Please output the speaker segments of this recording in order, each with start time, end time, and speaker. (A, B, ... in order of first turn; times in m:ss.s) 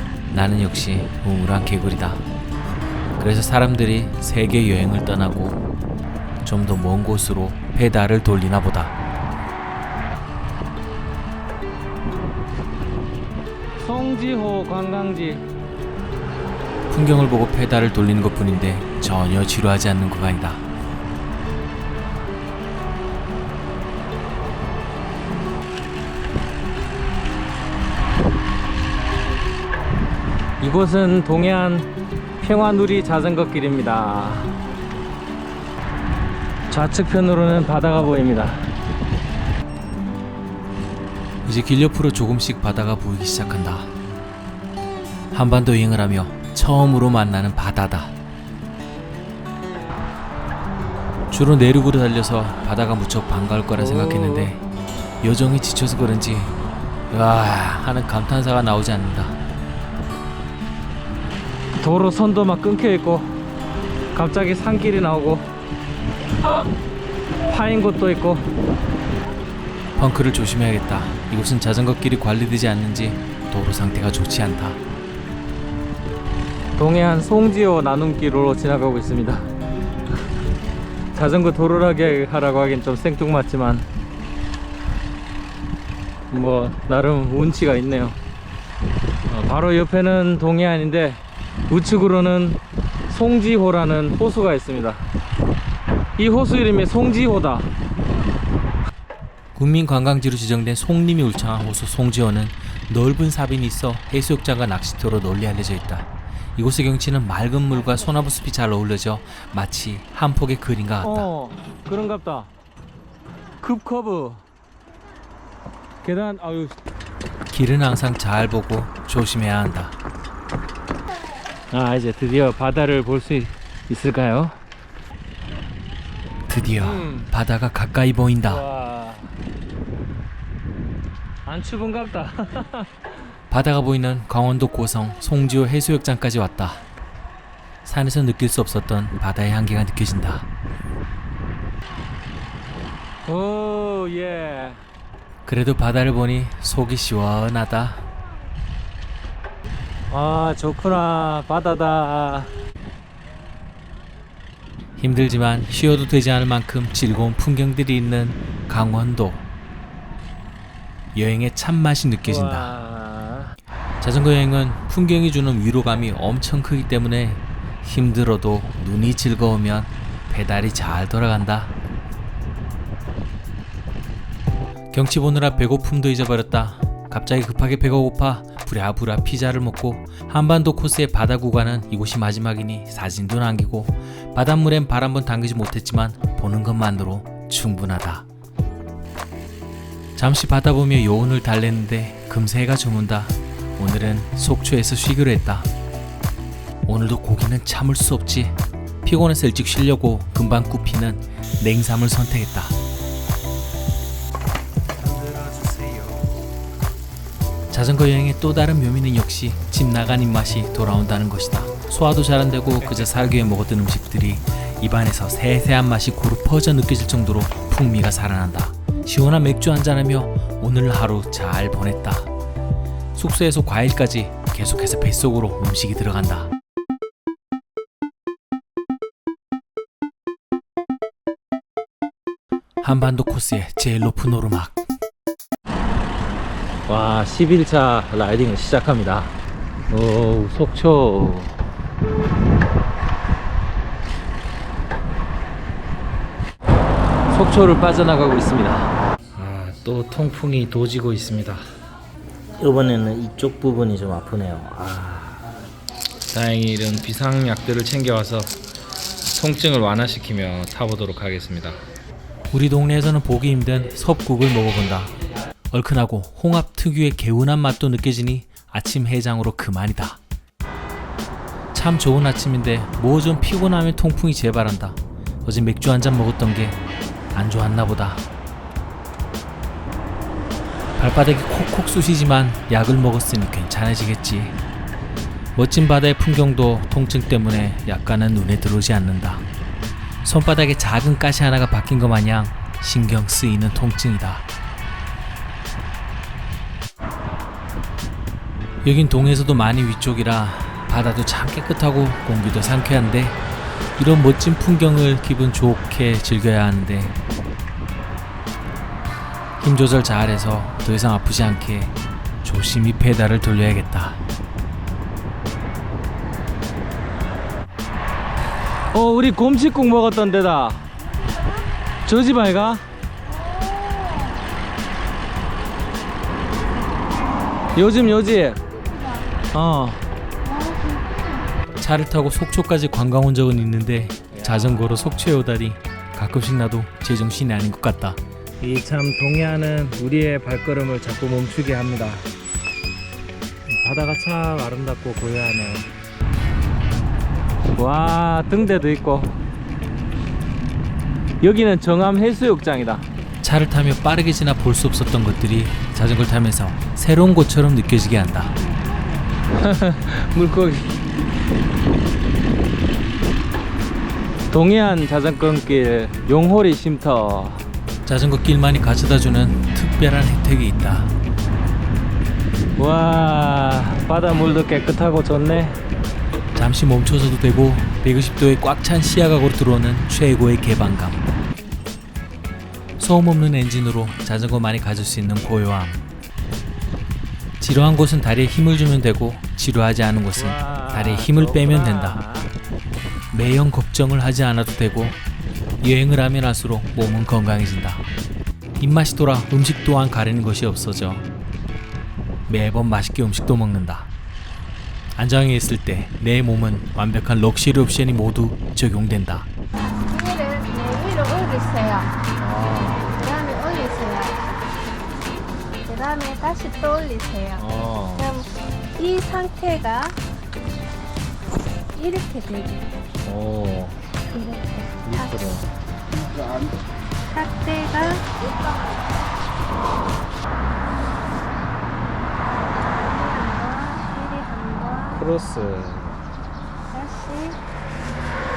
0:00.3-0:02.2 A
0:03.2-0:05.6 A
0:06.4-0:08.9 A
0:13.8-0:15.4 B
0:16.9-0:20.6 A
0:30.6-0:31.9 B
0:32.4-0:34.5 B
0:36.7-0:38.7 B
0:41.4-0:43.9 A
0:45.3-0:48.2 A
0:51.3-0:54.6 A
0:53.8-0:54.5 B
0:55.2-0:56.6 A
0:57.1-0:59.4 A
1:01.8-1:03.3 B
1:04.1-1:05.5 B
1:07.5-1:08.5 B
1:10.0-1:14.8 A
1:16.8-1:19.5 B
1:21.1-1:23.9 B
1:26.3-1:28.2 B
1:29.3-1:35.1 B
1:36.2-1:37.7 B
1:39.5-1:51.3 A
1:51.0-1:52.5 B
1:53.6-1:54.4 B
1:56.0-1:56.8 B
1:57.5-1:59.9 A
2:01.7-2:04.6 B
2:06.5-2:08.6 A
2:06.8-2:07.3 B
2:08.4-2:09.3 B
2:11.4-2:12.9 B
2:13.5-2:16.8 A
2:17.8-2:20.5 A
2:23.2-2:24.8 B
2:25.4-2:28.0 A
2:30.1-2:32.5 B
2:35.0-2:39.4 A
2:41.1-2:42.7 A
2:42.2-2:43.5 B
2:44.0-2:51.7 A
2:54.9-3:08.2 A
3:10.2-3:15.7 A
3:16.9-3:22.8 A
3:25.0-3:26.3 B
3:27.7-3:42.3 A
3:43.1-3:46.5 A
3:52.8-3:54.8 A
3:56.9-3:59.4 B
3:59.9-4:01.6 B
4:07.3-4:11.6 B
4:12.6-4:15.4 B
4:16.3-4:18.5 B
4:19.3-4:21.8 B
4:22.5-4:25.1 A
4:25.7-4:30.2 A
4:31.7-4:36.8 A
4:37.3-4:38.2 A
4:41.0-4:44.6 A
4:45.5-4:49.4 A
4:50.2-4:54.4 A
4:58.8-5:03.4 A
5:04.0-5:07.2 A
5:09.6-5:14.2 A
5:18.9-5:20.8 B
5:22.0-5:22.8 B
5:27.7-5:28.6 B
5:29.5-5:30.0 B
5:30.7-5:31.0 C
5:31.8-5:38.2 A
5:34.3-5:35.1 B
5:38.6-5:42.3 B
5:43.8-5:45.9 B
5:47.7-5:49.4 B
5:51.4-5:53.0 B
5:53.4-5:58.6 A
5:59.5-6:01.0 B
6:04.5-6:07.6 B
6:08.0-6:11.1 A
6:12.8-6:15.8 B
6:16.5-6:21.2 A
6:23.0-6:26.0 A
6:27.6-6:32.2 A
6:30.4-6:32.5 B
6:33.3-6:35.2 A
6:35.8-6:38.0 A
6:38.8-6:41.2 A
6:42.5-6:44.1 A
6:45.2-6:49.5 A
6:49.8-6:52.1 C
6:52.4-6:53.1 B
6:53.1-6:54.4 C
6:55.8-6:57.6 C
6:57.6-6:58.3 B
6:58.2-7:00.2 C
7:01.9-7:02.9 C
7:03.2-7:04.0 B
7:04.3-7:05.5 C
7:05.0-7:05.7 B
7:07.3-7:08.3 C
7:12.8-7:15.2 C
7:15.2-7:16.2 B
7:16.9-7:17.6 C